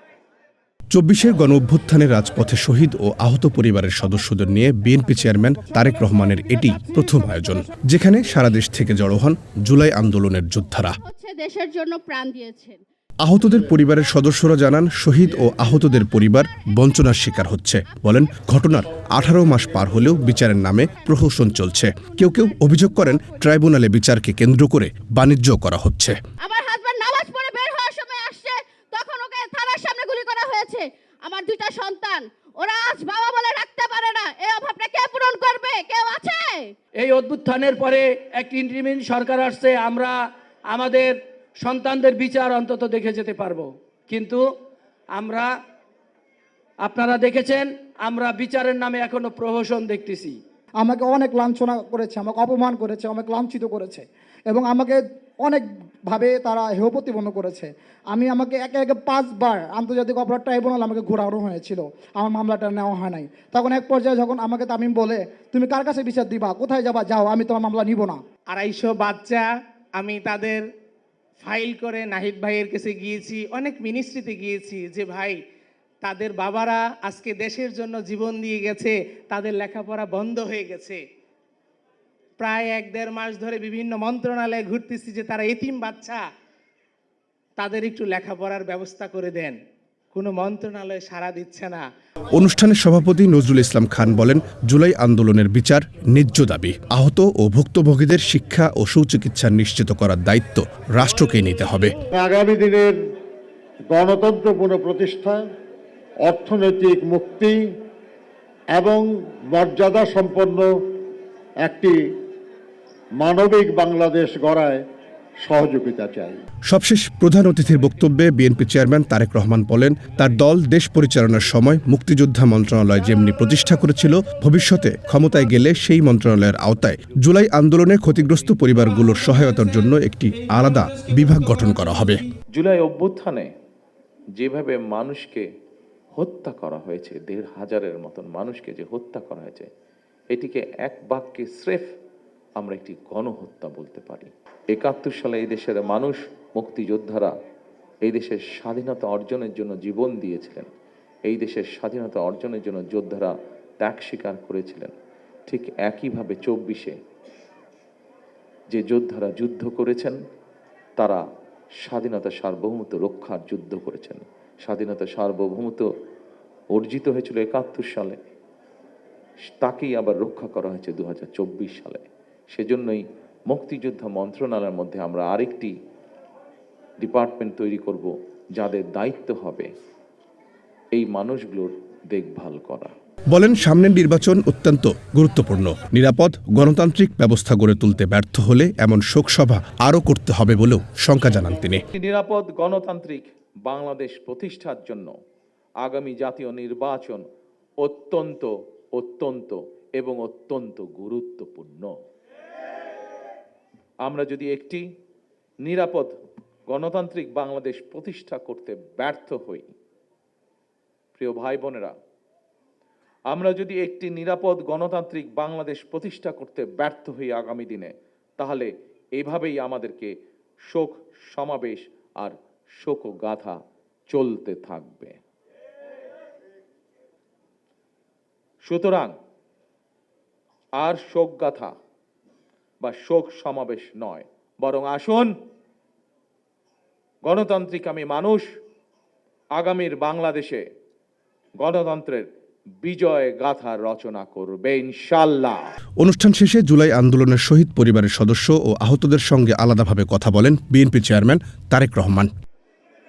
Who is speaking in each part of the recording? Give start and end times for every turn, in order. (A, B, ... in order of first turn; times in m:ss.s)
0:00.9-0:11.0 A
0:11.0-0:12.8 B
0:13.2-0:26.1 A
0:26.4-0:36.7 B
0:37.0-0:40.2 C
0:40.7-0:44.4 C
0:45.2-0:45.5 C
0:46.8-0:50.4 C
0:50.8-1:08.2 D
1:08.5-1:10.6 E
1:11.4-1:15.4 E
1:16.0-1:21.0 E
1:22.4-1:26.2 E
1:27.6-1:29.6 E
1:30.1-1:31.8 E
1:32.3-1:41.9 A
1:42.1-1:43.0 F
1:43.9-1:45.4 F
1:46.2-1:47.6 F
1:48.7-1:50.7 F
1:51.6-1:51.9 F
1:53.2-1:54.8 F
1:55.4-1:56.4 F
1:56.7-2:12.2 A
2:12.5-2:13.5 G
2:14.4-2:15.4 G
2:16.2-2:19.7 G
2:20.3-2:21.9 G
2:22.6-2:27.3 G
2:28.0-2:30.7 G
2:31.3-2:34.9 G
2:35.5-2:37.0 G
2:38.7-2:40.2 G
2:41.8-2:45.9 G
2:46.7-2:48.2 G
2:49.6-2:52.0 G
2:52.5-2:55.7 G
2:57.0-2:59.7 G
3:00.9-3:02.9 G
3:03.3-3:11.8 A
3:11.9-3:15.1 G
3:15.8-3:17.2 G
3:17.8-3:21.9 G
3:24.0-3:24.8 G
3:25.6-3:26.1 G
3:26.7-3:29.7 G
3:31.2-3:31.9 G
3:33.3-3:40.1 G
3:40.7-3:45.2 G
3:48.6-3:49.1 G
3:50.8-3:51.7 G
3:52.8-3:55.3 G
3:57.2-3:58.4 G
3:59.6-4:00.6 G
4:01.6-4:02.3 G
4:02.8-4:05.6 G
4:06.0-4:12.3 A